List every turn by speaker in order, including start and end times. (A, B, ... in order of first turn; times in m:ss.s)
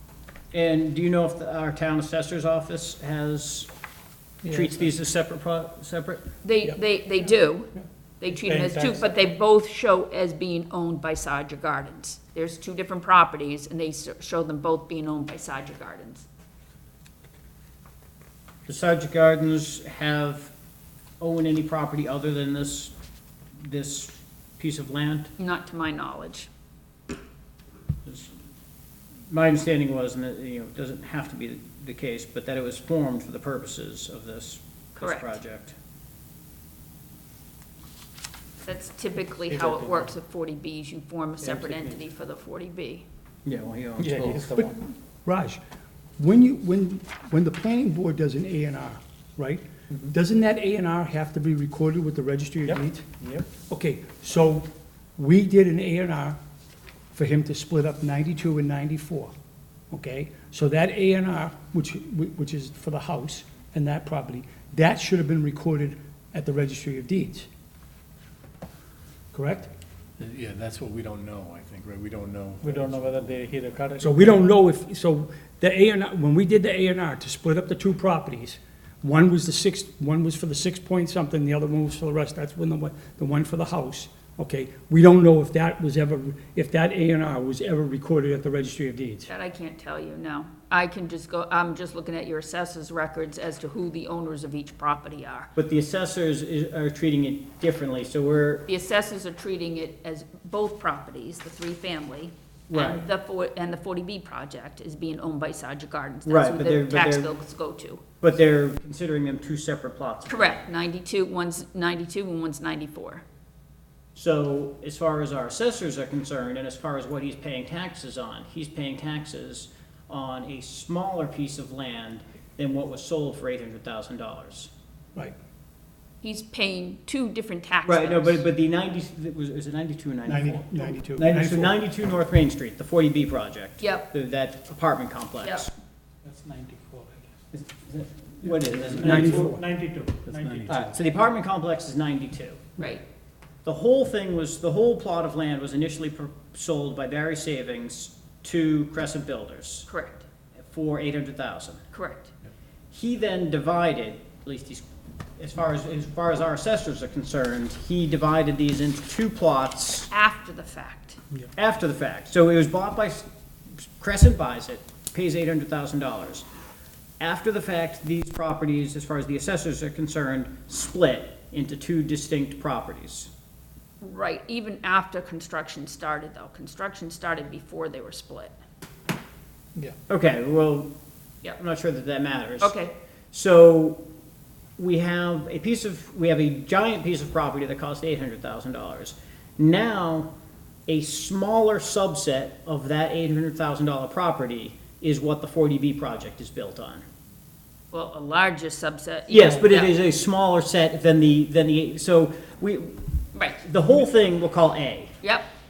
0:00.5-0:03.7 A
0:04.4-0:06.2 A
0:04.5-0:04.7 B
0:06.4-0:16.3 C
0:08.3-0:09.0 B
0:18.7-0:20.5 A
0:21.2-0:22.9 A
0:23.6-0:25.3 A
0:25.4-0:26.5 C
0:28.1-0:28.3 A
0:29.3-0:35.8 A
0:35.0-0:35.4 C
0:38.6-0:43.1 C
0:39.5-0:40.1 B
0:41.4-0:42.0 B
0:43.4-0:44.6 A
0:44.0-0:44.9 B
0:45.2-0:45.6 D
0:46.2-0:56.4 D
0:57.1-0:59.3 D
0:59.9-1:07.5 D
1:09.3-1:09.7 D
1:10.2-1:13.3 E
1:12.6-1:14.4 B
1:14.0-1:29.3 D
1:29.3-1:35.5 C
1:35.6-1:38.7 A
1:38.7-1:48.0 C
1:42.7-1:43.1 A
1:46.2-1:47.3 A
1:48.2-1:50.6 A
1:50.3-1:53.2 C
1:54.2-2:04.7 A
2:06.2-2:08.4 C
2:07.8-2:15.7 A
2:10.3-2:11.8 D
2:13.8-2:14.1 C
2:15.4-2:15.7 C
2:16.2-2:17.3 B
2:17.5-2:19.5 A
2:18.5-2:20.9 B
2:19.0-2:19.6 D
2:20.7-2:22.7 A
2:23.6-2:29.9 A
2:29.9-2:30.2 C
2:30.6-2:31.8 A
2:31.9-2:32.3 C
2:32.9-2:34.9 A
2:35.4-2:40.1 A
2:40.1-2:41.2 C
2:41.6-2:46.5 A
2:47.2-2:53.3 A
2:54.0-2:58.6 C
3:00.1-3:00.9 A
3:01.4-3:02.8 A
3:02.6-3:02.9 C
3:03.3-3:04.0 A
3:04.8-3:10.3 A
3:10.9-3:17.0 A
3:17.9-3:20.0 C
3:19.3-3:23.1 A
3:23.3-3:23.6 C
3:23.6-3:25.1 A
3:25.2-3:25.5 C